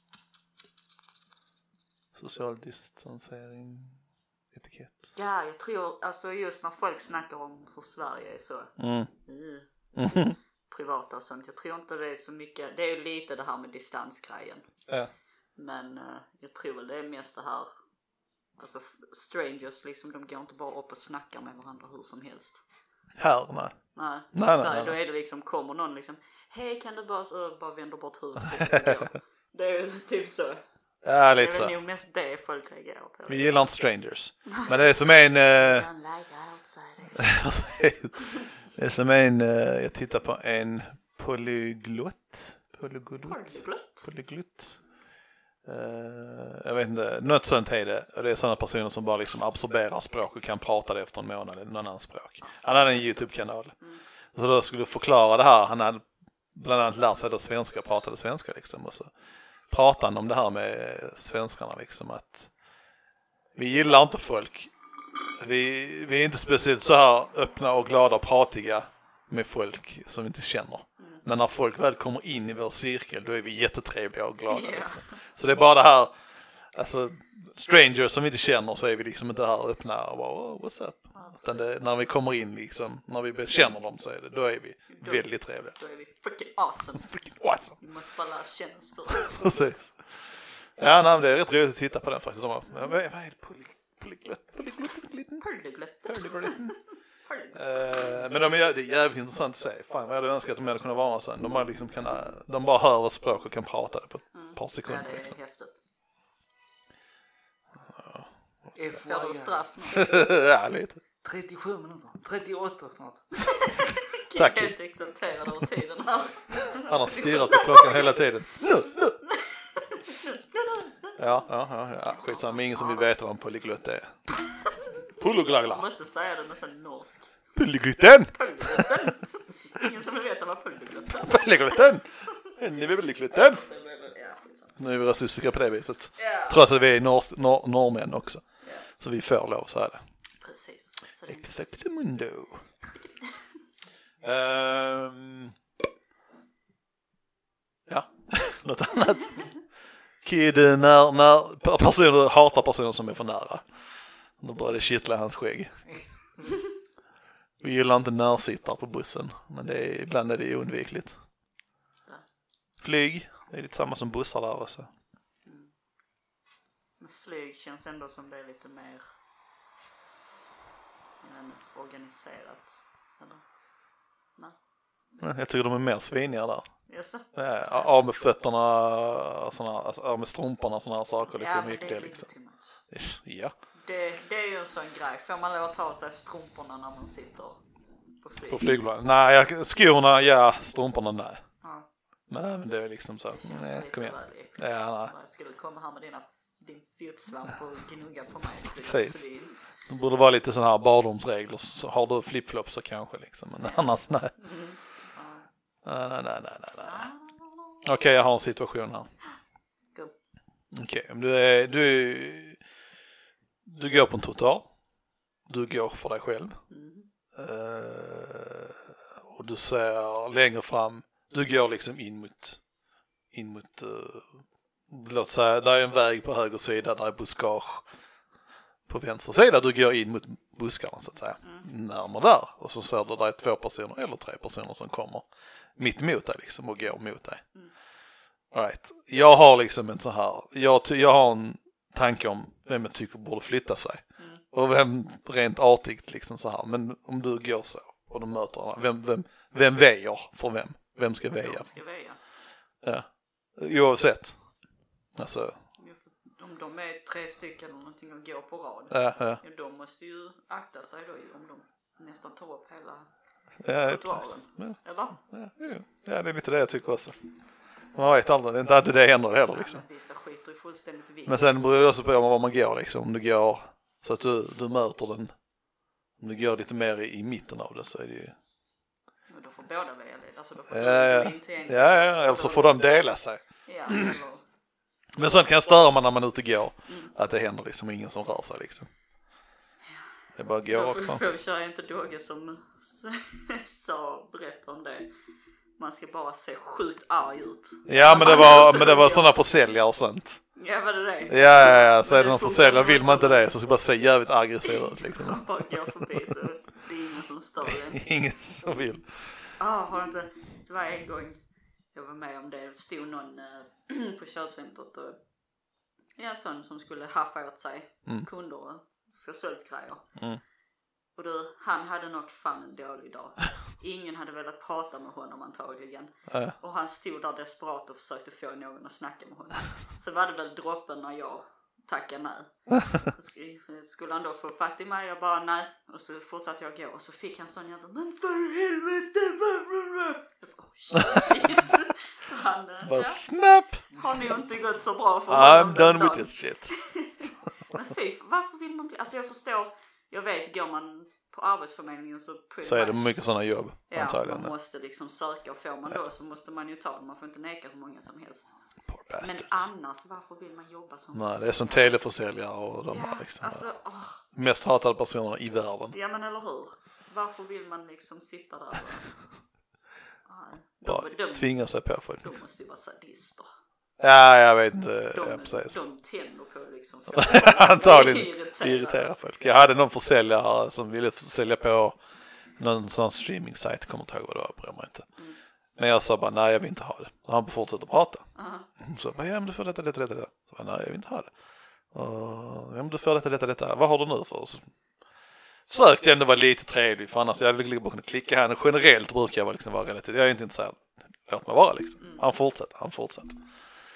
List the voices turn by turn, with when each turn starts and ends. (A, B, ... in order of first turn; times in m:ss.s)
0:02.1-0:04.0 A
0:04.5-0:05.1 A
0:05.1-0:09.9 B
0:08.8-0:09.1 A
0:09.9-0:10.4 A
0:10.7-0:14.9 B
0:15.6-0:17.7 B
0:18.6-0:22.6 B
0:23.2-0:24.9 A
0:23.9-0:30.6 B
0:31.0-0:31.7 A
0:31.4-0:33.7 B
0:33.3-0:35.9 A
0:34.5-0:34.9 B
0:35.5-0:37.3 B
0:37.2-0:44.8 A
0:43.2-0:44.0 B
0:45.6-0:53.8 A
0:52.4-0:54.0 B
0:54.3-0:59.1 A
0:59.7-1:02.5 A
1:03.6-1:04.7 A
1:05.4-1:16.2 A
1:11.0-1:11.2 B
1:14.5-1:15.1 B
1:16.7-1:25.8 A
1:21.1-1:21.8 B
1:24.9-1:29.5 B
1:27.0-1:27.8 A
1:29.2-1:35.4 A
1:32.6-1:33.0 B
1:35.4-1:38.2 B
1:36.0-1:36.8 A
1:37.5-1:45.4 A
1:44.3-1:45.8 B
1:47.9-1:48.9 A
1:48.7-1:49.7 C
1:49.0-1:50.1 B
1:49.9-1:51.0 A
1:51.2-1:53.5 C
1:53.6-1:58.0 B
1:53.6-1:54.8 A
1:56.8-1:59.2 A
2:00.2-2:01.2 B
2:01.2-2:04.3 A
2:02.3-2:03.1 B
2:05.2-2:05.8 A
2:05.5-2:07.3 B
2:07.5-2:09.1 A
2:08.3-2:11.6 B
2:11.1-2:13.6 A
2:13.3-2:14.8 B
2:14.8-2:18.4 A
2:16.2-2:16.6 B
2:19.0-2:20.0 A
2:20.4-2:21.7 B
2:21.3-2:22.6 A
2:24.2-2:25.5 A
2:27.9-2:29.6 A
2:30.2-2:35.8 A
2:37.6-2:41.2 A
2:42.8-2:44.9 A
2:45.4-2:45.7 B
2:47.0-2:49.0 B
2:51.2-2:53.4 B
2:55.2-3:02.3 A
2:56.9-2:57.9 B
3:01.4-3:02.8 B
3:02.9-3:03.5 A
3:03.8-3:07.6 B
3:08.2-3:08.8 B
3:08.5-3:11.5 A
3:11.6-3:11.9 B
3:12.3-3:15.1 A
3:13.3-3:19.6 B
3:18.6-3:19.3 A
3:19.8-3:24.3 A
3:23.6-3:25.4 B
3:25.8-3:27.1 A
3:26.8-3:27.8 B
3:27.8-3:29.1 A
3:30.7-3:32.6 A
3:33.6-3:34.7 A
3:35.4-3:36.6 A
3:36.7-3:37.1 B
3:37.3-3:42.6 A
3:43.3-3:47.9 A
3:48.9-3:57.4 A
3:58.5-4:11.8 A
4:04.2-4:04.4 B
4:11.3-4:12.2 B
4:12.8-4:14.4 A
4:15.1-4:15.6 A
4:15.8-4:25.2 B
4:18.9-4:19.4 A
4:23.6-4:27.2 A
4:27.9-4:29.8 A
4:29.5-4:31.6 B
4:31.2-4:35.3 A
4:36.2-4:38.4 A
4:39.3-4:42.7 B
4:40.7-4:44.1 A
4:43.6-4:44.4 B
4:45.2-4:48.9 A
4:46.9-4:47.1 B
4:50.3-4:51.2 A
4:50.7-4:55.1 B
4:55.8-4:59.3 B
4:57.8-5:00.4 A
5:00.5-5:03.5 B
5:01.3-5:06.3 A
5:04.7-5:08.0 B
5:07.6-5:09.3 A
5:09.6-5:11.4 B
5:11.9-5:15.2 B
5:16.1-5:20.2 B
5:20.2-5:20.4 A
5:21.1-5:43.3 B
5:26.3-5:26.5 A
5:42.8-5:43.9 A
5:43.9-5:53.2 B
5:45.3-5:46.8 A
5:52.6-5:54.5 A
5:53.9-5:58.5 B
5:58.9-5:59.6 A
5:59.2-6:02.0 B
6:01.1-6:03.6 A
6:02.9-6:04.2 B
6:04.2-6:05.9 A
6:05.9-6:09.3 B
6:10.2-6:11.7 B
6:10.8-6:12.4 A
6:12.2-6:13.5 B
6:14.0-6:15.8 A
6:15.1-6:19.1 B
6:17.1-6:22.0 A
6:22.6-6:25.1 A
6:25.8-6:31.3 A
6:28.3-6:28.7 B
6:31.9-6:34.7 A
6:35.7-6:43.4 A
6:42.0-6:42.2 B